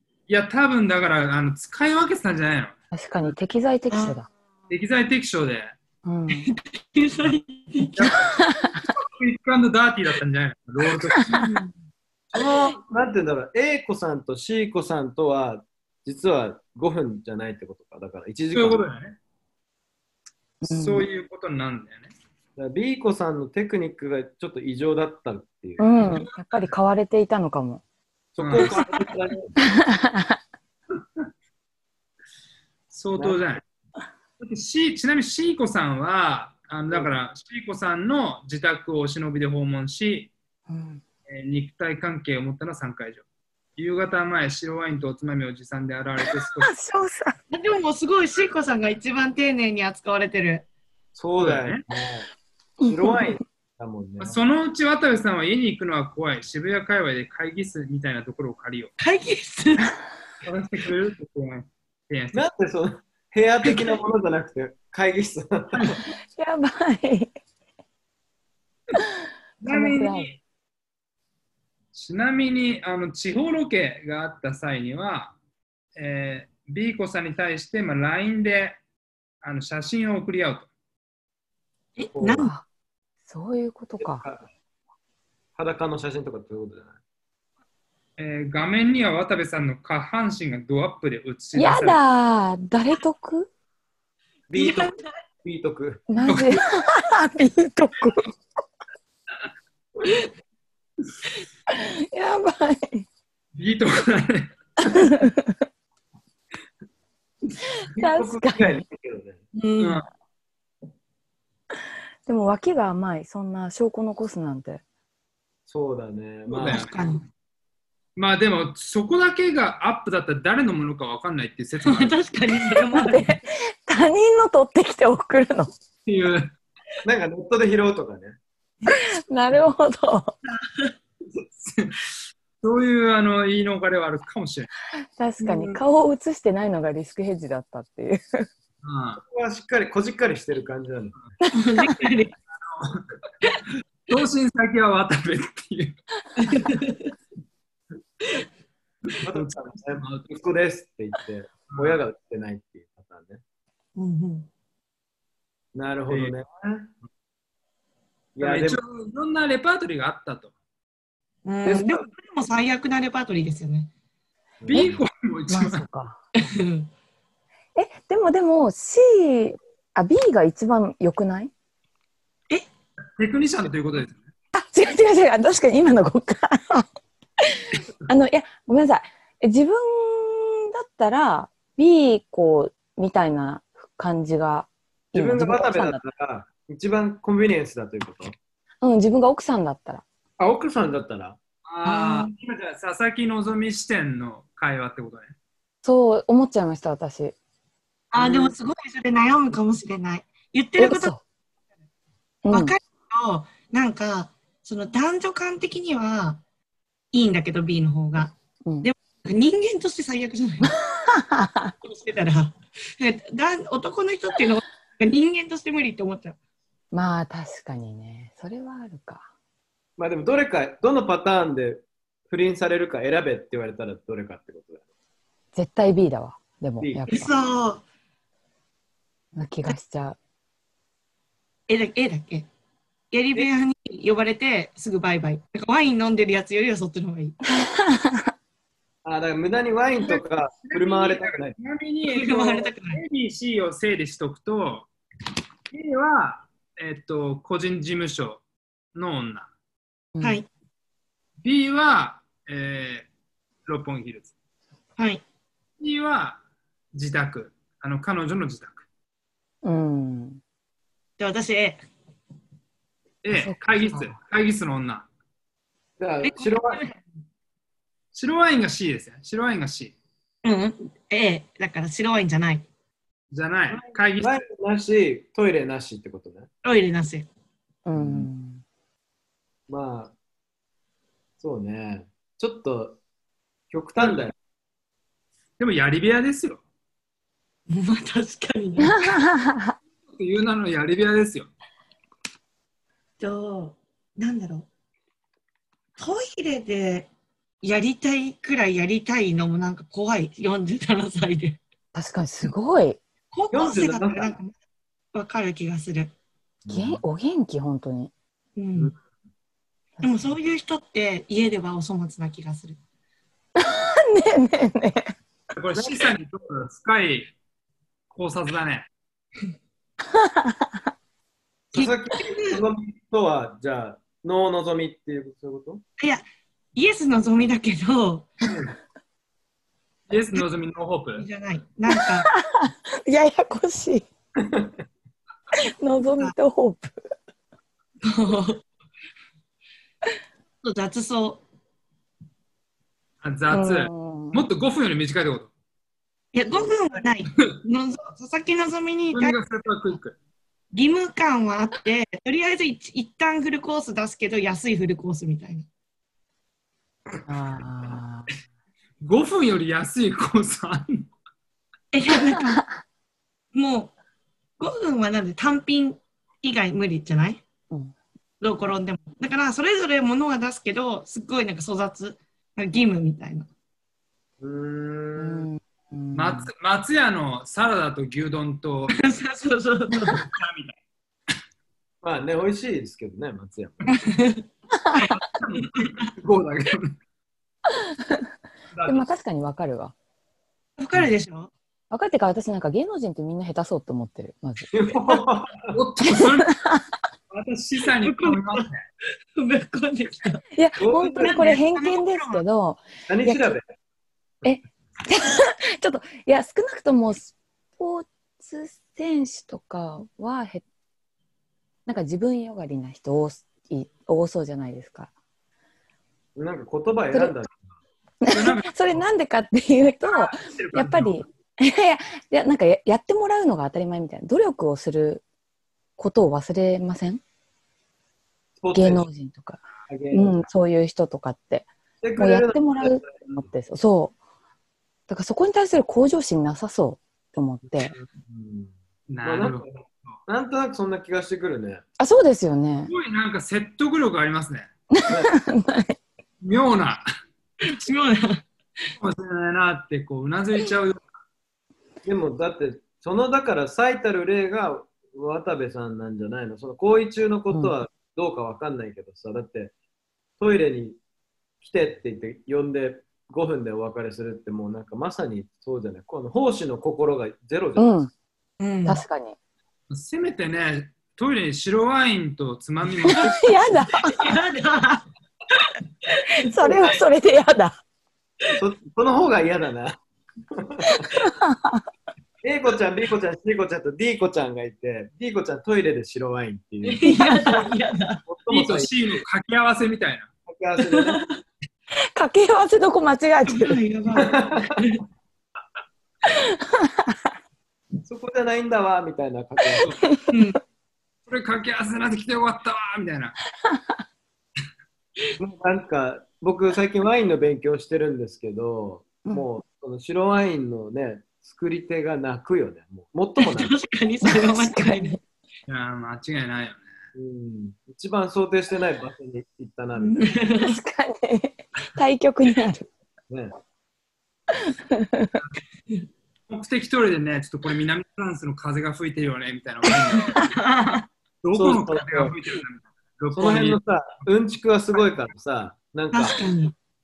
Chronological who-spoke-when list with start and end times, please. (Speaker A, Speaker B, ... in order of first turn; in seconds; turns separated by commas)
Speaker A: 0.3-2.8, Speaker B: 2.9-4.3, Speaker C: 3.9-4.2, Speaker A: 4.7-5.7, Speaker B: 6.0-6.5, Speaker C: 6.5-8.1, Speaker A: 7.9-11.5, Speaker B: 8.1-8.8, Speaker B: 11.1-11.4, Speaker C: 11.4-11.7, Speaker D: 12.3-18.8, Speaker A: 18.5-19.2, Speaker B: 20.6-21.0, Speaker A: 20.6-22.1, Speaker D: 22.6-25.9, Speaker B: 25.8-27.8, Speaker D: 28.3-29.5, Speaker A: 28.4-28.8, Speaker B: 29.6-30.4, Speaker A: 32.9-33.6, Speaker A: 34.4-40.3, Speaker B: 40.7-41.0, Speaker A: 41.3-43.2, Speaker A: 43.8-46.7, Speaker B: 46.4-47.3, Speaker C: 47.5-50.6, Speaker D: 51.1-52.3, Speaker A: 51.4-51.8, Speaker B: 52.8-53.4, Speaker D: 52.8-54.4, Speaker A: 54.2-58.9, Speaker C: 59.0-59.9, Speaker A: 60.4-62.4, Speaker D: 62.3-66.0, Speaker A: 65.7-66.0, Speaker B: 66.3-67.3, Speaker A: 69.6-70.3, Speaker B: 69.6-70.3, Speaker A: 71.9-75.3, Speaker A: 76.0-78.8, Speaker A: 79.4-80.7, Speaker C: 82.0-82.5, Speaker D: 82.1-82.5, Speaker B: 82.4-82.6, Speaker B: 83.2-84.2, Speaker D: 84.0-84.5, Speaker D: 85.5-87.0, Speaker A: 88.2-92.0, Speaker B: 91.5-93.5, Speaker D: 94.5-96.0, Speaker C: 94.5-95.0, Speaker B: 96.1-98.3, Speaker A: 96.2-96.6, Speaker B: 101.7-103.0, Speaker A: 103.5-104.5, Speaker B: 104.8-105.5, Speaker B: 107.9-108.8, Speaker D: 108.0-109.4, Speaker C: 109.5-110.0, Speaker A: 109.8-110.0, Speaker B: 112.2-114.8, Speaker D: 115.7-116.8, Speaker A: 116.5-117.1, Speaker C: 116.6-117.2, Speaker A: 118.2-122.2, Speaker C: 121.8-123.3, Speaker B: 122.9-125.7, Speaker A: 126.0-126.5, Speaker D: 127.0-128.4, Speaker B: 128.9-130.3, Speaker C: 130.7-130.9, Speaker A: 131.3-134.7, Speaker B: 135.2-138.5, Speaker A: 138.8-139.2, Speaker D: 139.2-141.1, Speaker B: 141.4-141.9, Speaker C: 141.5-142.3, Speaker A: 142.6-143.1, Speaker A: 144.1-145.9, Speaker C: 146.4-147.1, Speaker A: 149.2-150.3, Speaker D: 149.2-153.4, Speaker A: 151.7-152.0, Speaker C: 153.9-154.5, Speaker D: 155.7-156.9, Speaker D: 158.3-158.8, Speaker A: 158.4-160.5, Speaker C: 161.4-163.9, Speaker D: 161.6-162.1, Speaker D: 164.6-165.0, Speaker A: 164.7-165.8, Speaker B: 165.5-166.2, Speaker C: 166.3-166.9, Speaker B: 167.8-171.5, Speaker A: 173.2-174.3, Speaker B: 174.5-176.9, Speaker B: 177.4-186.0, Speaker D: 185.1-188.3, Speaker B: 188.8-190.0, Speaker D: 190.4-191.4, Speaker A: 191.7-195.3, Speaker B: 191.8-192.3, Speaker B: 195.8-197.3, Speaker C: 198.1-201.1, Speaker B: 200.8-201.2, Speaker B: 202.4-202.7, Speaker C: 202.5-206.4, Speaker C: 207.1-210.8, Speaker B: 210.6-211.7, Speaker C: 211.8-216.4, Speaker B: 216.9-219.2, Speaker D: 220.0-224.8, Speaker B: 225.5-227.3, Speaker D: 226.8-227.3, Speaker C: 227.1-227.8, Speaker B: 229.3-230.2, Speaker C: 231.7-232.5, Speaker C: 233.1-237.4, Speaker B: 237.6-238.2, Speaker D: 239.0-241.6, Speaker A: 240.1-244.9, Speaker C: 242.1-243.0, Speaker A: 245.7-248.4, Speaker A: 248.9-249.5, Speaker B: 250.1-250.4, Speaker C: 250.2-250.5, Speaker A: 251.4-253.1, Speaker A: 253.7-254.3, Speaker C: 255.0-255.2, Speaker A: 255.8-256.4, Speaker A: 256.9-258.8, Speaker B: 259.6-260.4, Speaker C: 261.2-261.8, Speaker A: 263.2-265.1, Speaker B: 263.3-264.1, Speaker D: 266.0-266.8, Speaker C: 266.2-267.0, Speaker A: 268.1-269.9, Speaker C: 270.4-272.6, Speaker A: 273.3-274.4, Speaker D: 273.7-276.5, Speaker C: 276.6-277.3, Speaker B: 277.9-278.6, Speaker D: 277.9-278.3, Speaker D: 279.7-280.1, Speaker D: 281.4-283.0, Speaker D: 283.7-284.3, Speaker A: 285.6-286.6, Speaker C: 287.7-289.1, Speaker B: 288.8-289.7, Speaker A: 290.1-291.5, Speaker C: 293.2-294.7, Speaker C: 296.0-297.1, Speaker C: 297.6-301.6, Speaker B: 301.9-303.0, Speaker C: 303.3-304.5, Speaker D: 303.5-304.3, Speaker C: 305.1-306.1, Speaker D: 306.6-307.0, Speaker B: 306.7-308.1, Speaker C: 308.6-308.9, Speaker C: 310.0-312.8, Speaker B: 313.6-315.1, Speaker A: 315.6-317.3, Speaker D: 315.8-316.0, Speaker A: 318.1-318.9, Speaker B: 320.1-320.5, Speaker D: 321.7-325.8, Speaker C: 321.7-322.6, Speaker C: 326.0-326.2, Speaker C: 326.7-328.3, Speaker A: 330.1-331.2, Speaker C: 331.2-332.3, Speaker B: 331.9-334.1, Speaker D: 334.4-334.7, Speaker B: 335.7-336.9, Speaker C: 338.0-338.6, Speaker C: 340.6-341.4, Speaker A: 343.2-345.5, Speaker B: 343.5-344.4, Speaker C: 346.3-349.4, Speaker A: 349.1-350.1, Speaker C: 350.7-355.7, Speaker B: 357.3-358.3, Speaker A: 359.0-361.1, Speaker C: 361.9-362.6, Speaker C: 363.5-363.9, Speaker C: 364.6-367.4, Speaker C: 368.4-373.5, Speaker D: 374.4-375.5, Speaker B: 375.2-376.5, Speaker A: 376.1-379.0, Speaker C: 378.9-380.2, Speaker A: 380.0-380.8, Speaker D: 382.0-383.9, Speaker C: 383.9-384.4, Speaker C: 385.0-386.1, Speaker A: 385.0-386.9, Speaker A: 388.7-389.1, Speaker B: 388.8-389.9, Speaker C: 390.8-391.5, Speaker B: 391.9-394.8, Speaker D: 394.7-395.7, Speaker A: 395.7-396.5, Speaker B: 396.1-396.8, Speaker A: 397.3-398.8, Speaker C: 398.0-398.7, Speaker C: 399.3-400.4, Speaker B: 400.6-403.6, Speaker D: 400.8-401.5, Speaker C: 401.2-402.4, Speaker D: 403.1-403.6, Speaker B: 404.4-410.6, Speaker B: 411.9-415.1, Speaker D: 416.4-417.7, Speaker B: 418.2-425.2, Speaker A: 418.3-419.0, Speaker A: 420.1-421.2, Speaker B: 426.0-427.2, Speaker D: 428.6-429.1, Speaker B: 428.7-434.1, Speaker D: 429.9-430.4, Speaker D: 432.0-433.5, Speaker B: 435.1-437.9, Speaker D: 438.3-439.7, Speaker A: 439.1-440.2, Speaker D: 440.3-441.8, Speaker B: 442.0-442.9, Speaker A: 442.9-444.7, Speaker B: 444.9-446.0, Speaker A: 446.4-447.0, Speaker C: 447.6-448.4, Speaker A: 449.0-451.1, Speaker D: 452.0-459.7, Speaker D: 460.4-461.0, Speaker D: 461.6-467.9, Speaker B: 467.8-468.1, Speaker C: 468.6-469.0, Speaker B: 468.9-469.4, Speaker A: 469.9-473.5, Speaker B: 473.1-474.3, Speaker C: 474.0-475.0, Speaker C: 476.2-476.9, Speaker B: 476.4-477.8, Speaker D: 478.6-480.0, Speaker D: 480.5-481.1, Speaker B: 480.9-481.8, Speaker D: 482.4-487.0, Speaker C: 486.8-488.2, Speaker B: 487.1-487.6, Speaker D: 488.2-488.9, Speaker A: 488.5-490.3, Speaker D: 490.5-491.2, Speaker C: 490.9-491.2, Speaker B: 492.1-493.8, Speaker C: 493.5-495.0, Speaker D: 494.1-494.8, Speaker B: 496.3-497.1, Speaker D: 498.0-499.9, Speaker C: 500.3-500.6, Speaker A: 501.3-503.4, Speaker D: 505.4-513.8, Speaker C: 513.4-515.2, Speaker B: 514.2-515.2, Speaker A: 515.7-516.8, Speaker D: 517.1-520.3, Speaker C: 520.0-520.8, Speaker B: 520.6-522.9, Speaker D: 523.3-523.5, Speaker B: 524.6-525.4, Speaker A: 526.5-530.5, Speaker C: 530.1-531.0, Speaker A: 531.4-533.8, Speaker D: 531.5-532.4, Speaker D: 533.3-536.4, Speaker C: 536.1-536.7